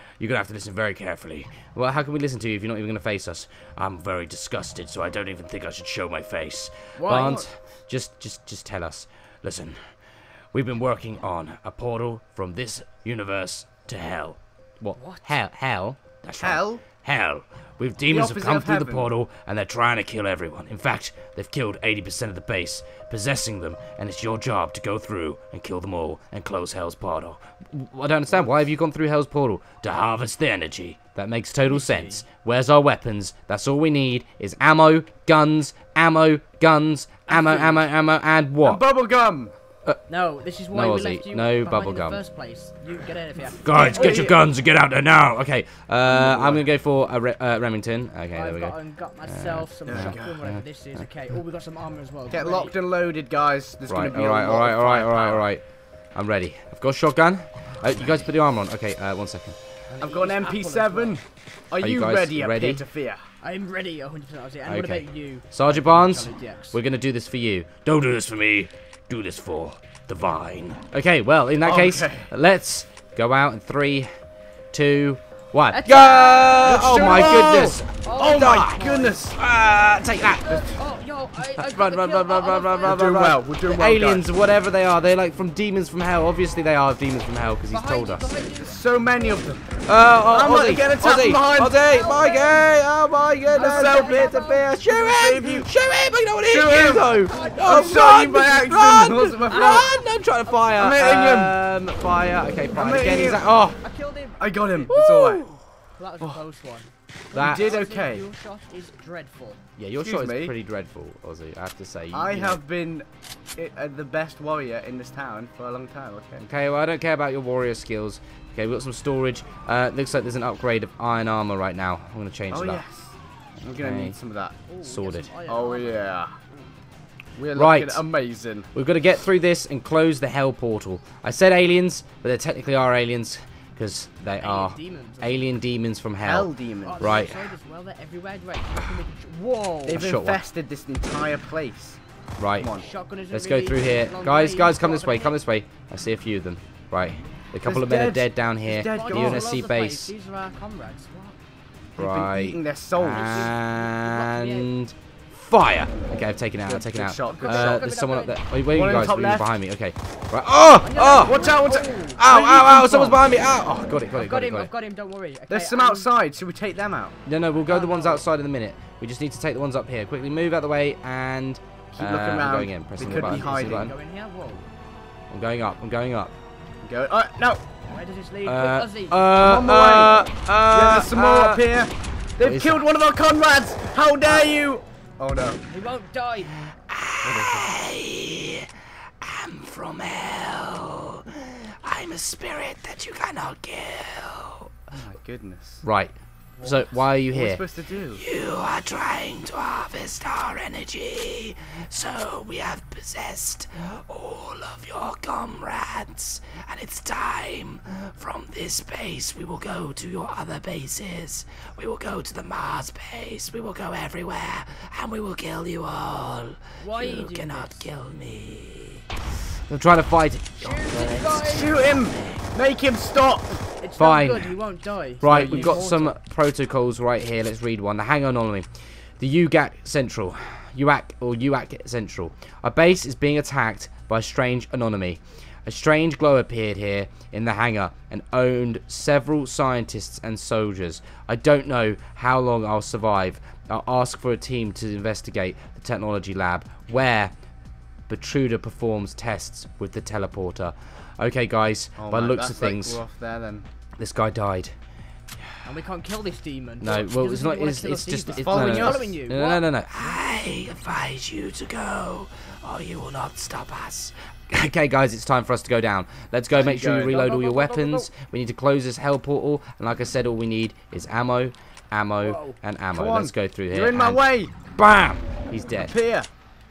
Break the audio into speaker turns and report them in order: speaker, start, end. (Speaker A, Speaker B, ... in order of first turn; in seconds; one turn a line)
Speaker A: 0.2-9.8
Speaker B: 7.0-7.5
Speaker A: 10.5-38.8
Speaker B: 15.0-15.4
Speaker C: 16.4-16.8
Speaker C: 18.1-19.1
Speaker B: 31.7-32.2
Speaker B: 37.4-37.8
Speaker C: 38.6-39.5
Speaker B: 40.1-44.2
Speaker A: 40.7-42.2
Speaker A: 43.6-51.1
Speaker C: 43.7-44.4
Speaker C: 46.0-46.7
Speaker B: 48.3-52.7
Speaker C: 49.9-50.5
Speaker C: 52.3-55.5
Speaker A: 53.9-55.6
Speaker A: 56.1-59.6
Speaker B: 59.9-61.2
Speaker C: 60.0-63.2
Speaker A: 61.8-62.9
Speaker B: 63.4-66.8
Speaker A: 64.7-74.1
Speaker C: 71.6-72.3
Speaker A: 74.7-80.7
Speaker B: 75.7-79.2
Speaker C: 76.5-79.4
Speaker B: 80.4-83.1
Speaker C: 80.5-80.8
Speaker A: 81.4-88.4
Speaker C: 82.8-84.3
Speaker B: 87.7-88.8
Speaker C: 88.6-89.7
Speaker A: 89.9-103.8
Speaker C: 90.3-91.8
Speaker B: 91.7-92.7
Speaker B: 93.5-94.7
Speaker C: 93.5-95.7
Speaker C: 96.4-99.9
Speaker B: 97.1-98.2
Speaker B: 99.5-100.1
Speaker C: 100.8-101.6
Speaker C: 102.7-103.6
Speaker B: 103.8-105.0
Speaker C: 104.4-105.5
Speaker A: 104.9-105.6
Speaker B: 106.0-109.6
Speaker A: 107.3-107.7
Speaker C: 107.4-108.3
Speaker A: 109.8-112.6
Speaker C: 110.0-110.5
Speaker C: 112.1-116.5
Speaker A: 116.4-122.8
Speaker C: 122.5-124.6
Speaker A: 123.8-124.2
Speaker B: 124.7-126.0
Speaker A: 124.8-125.3
Speaker C: 125.5-126.3
Speaker C: 127.3-128.7
Speaker A: 127.5-128.0
Speaker A: 128.7-137.5
Speaker B: 134.4-135.4
Speaker C: 136.2-137.3
Speaker B: 136.8-140.1
Speaker C: 139.9-142.0
Speaker A: 139.9-140.4
Speaker A: 142.4-142.7
Speaker C: 142.6-142.9
Speaker B: 142.7-145.4
Speaker A: 143.3-150.1
Speaker C: 147.6-149.5
Speaker B: 148.9-151.4
Speaker A: 152.0-161.4
Speaker C: 152.0-153.6
Speaker B: 153.5-154.7
Speaker C: 156.7-157.9
Speaker B: 157.3-158.4
Speaker C: 158.7-159.5
Speaker B: 160.8-162.2
Speaker C: 161.2-163.3
Speaker A: 162.2-164.7
Speaker B: 164.1-166.1
Speaker C: 165.5-167.2
Speaker A: 167.3-173.9
Speaker B: 167.6-168.2
Speaker C: 171.9-173.9
Speaker B: 173.1-174.7
Speaker A: 175.3-176.3
Speaker C: 176.8-177.6
Speaker B: 177.9-179.2
Speaker A: 178.4-181.7
Speaker C: 179.4-185.6
Speaker A: 182.4-182.9
Speaker B: 184.2-184.5
Speaker B: 185.7-186.6
Speaker A: 186.6-188.7
Speaker C: 187.2-187.7
Speaker A: 189.2-194.9
Speaker C: 194.9-195.8
Speaker A: 195.8-222.4
Speaker B: 196.6-197.0
Speaker C: 197.3-198.2
Speaker B: 216.8-217.9
Speaker B: 220.6-221.9
Speaker C: 221.4-223.7
Speaker B: 223.8-226.2
Speaker A: 224.0-224.5
Speaker A: 225.2-228.7
Speaker C: 225.2-225.8
Speaker A: 229.2-247.3
Speaker A: 248.1-253.0
Speaker C: 252.0-253.7
Speaker A: 254.0-254.8
Speaker B: 255.6-259.7
Speaker A: 256.8-275.9
Speaker C: 258.4-259.2
Speaker C: 266.6-267.2
Speaker B: 266.8-268.1
Speaker B: 272.2-272.6
Speaker C: 272.9-274.5
Speaker C: 275.7-276.3